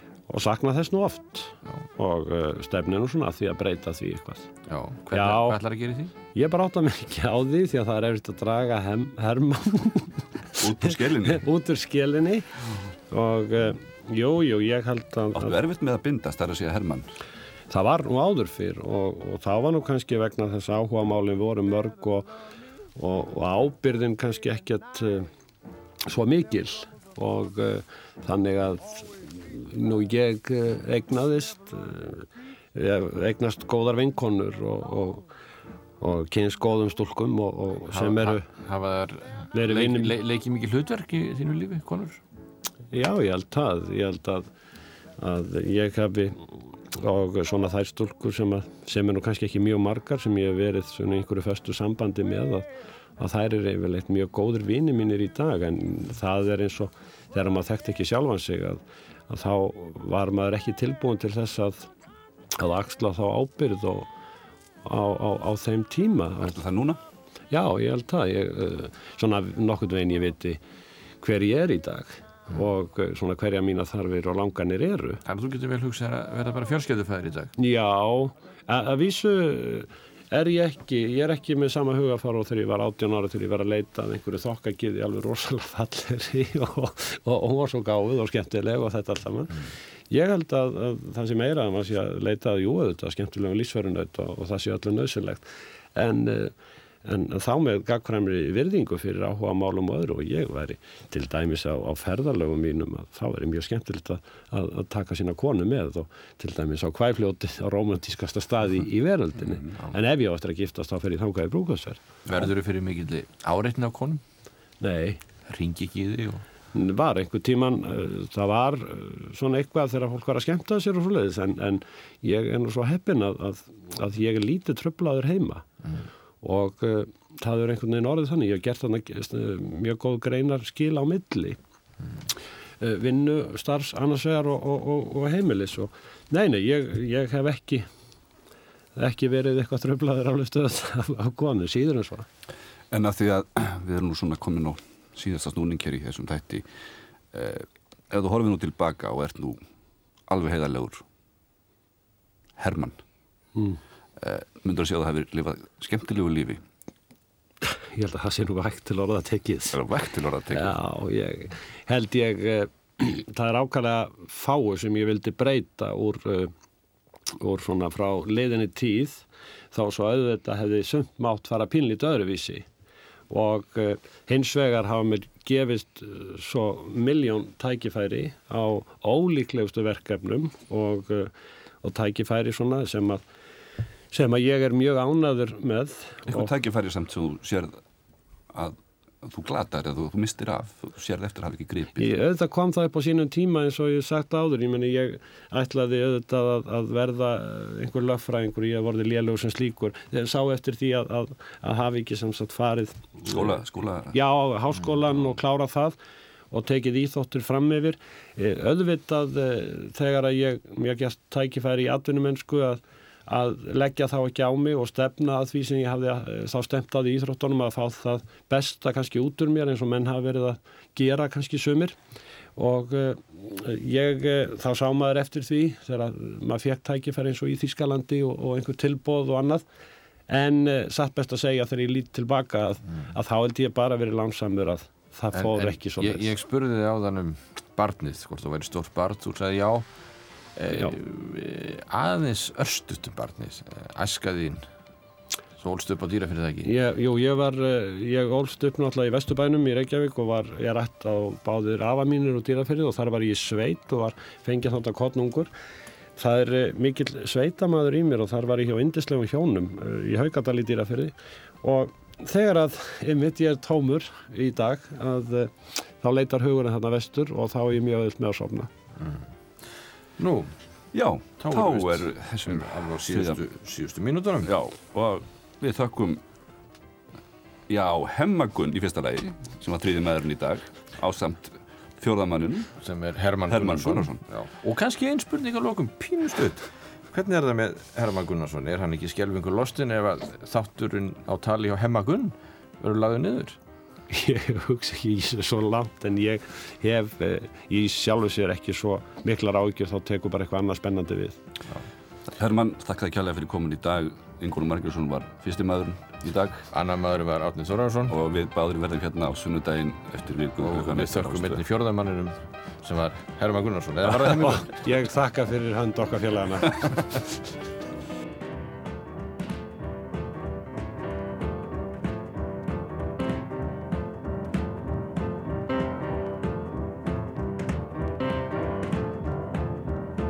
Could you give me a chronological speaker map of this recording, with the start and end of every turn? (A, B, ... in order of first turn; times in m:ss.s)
0:00.3-0:04.5 A
0:04.7-0:06.1 B
0:05.1-0:05.6 A
0:06.3-0:15.6 A
0:10.6-0:11.4 C
0:15.3-0:17.1 C
0:17.7-0:22.3 A
0:23.0-0:25.3 A
0:26.1-0:35.3 A
0:36.0-0:38.5 A
0:38.0-0:42.2 B
0:39.5-0:40.1 A
0:42.9-0:44.5 A
0:45.2-1:01.9 A
1:02.6-1:04.1 A
1:04.8-1:06.6 A
1:06.4-1:07.0 C
1:07.5-1:10.6 A
1:11.2-1:15.2 A
1:15.2-1:17.5 B
1:17.6-1:52.0 A
1:52.2-1:54.2 B
1:54.8-1:55.2 A
1:55.4-1:56.4 B
1:56.7-2:05.6 A
2:06.4-2:11.6 A
2:12.8-2:17.9 A
2:19.0-2:22.3 A
2:22.9-2:26.6 C
2:27.3-2:29.6 C
2:30.3-2:31.0 C
2:32.6-2:33.0 C
2:34.2-2:36.6 C
2:37.6-2:39.9 A
2:39.7-2:40.8 C
2:40.5-2:46.5 A
2:47.4-2:52.7 A
2:53.3-3:01.3 A
3:01.8-3:03.2 A
3:04.1-3:06.5 A
3:06.3-3:07.8 C
3:08.5-3:12.1 C
3:12.0-3:23.5 A
3:23.2-3:24.2 C
3:24.1-3:26.0 A
3:26.5-3:42.0 A
3:42.6-3:49.6 A
3:50.3-3:56.3 A
3:55.3-3:59.9 B
4:00.6-4:04.7 B
4:00.7-4:01.0 A
4:05.6-4:06.7 B
4:06.6-4:15.5 A
4:16.2-4:28.7 A
4:30.2-4:30.5 B
4:30.9-4:33.4 C
4:31.4-4:34.5 B
4:34.4-4:36.2 C
4:37.7-4:42.7 C
4:42.8-4:53.6 B
4:43.5-4:44.2 C
4:54.1-5:01.4 A
5:02.3-5:06.7 C
5:06.7-5:08.1 B
5:08.1-5:11.6 C
5:10.6-5:14.8 B
5:14.1-5:17.0 A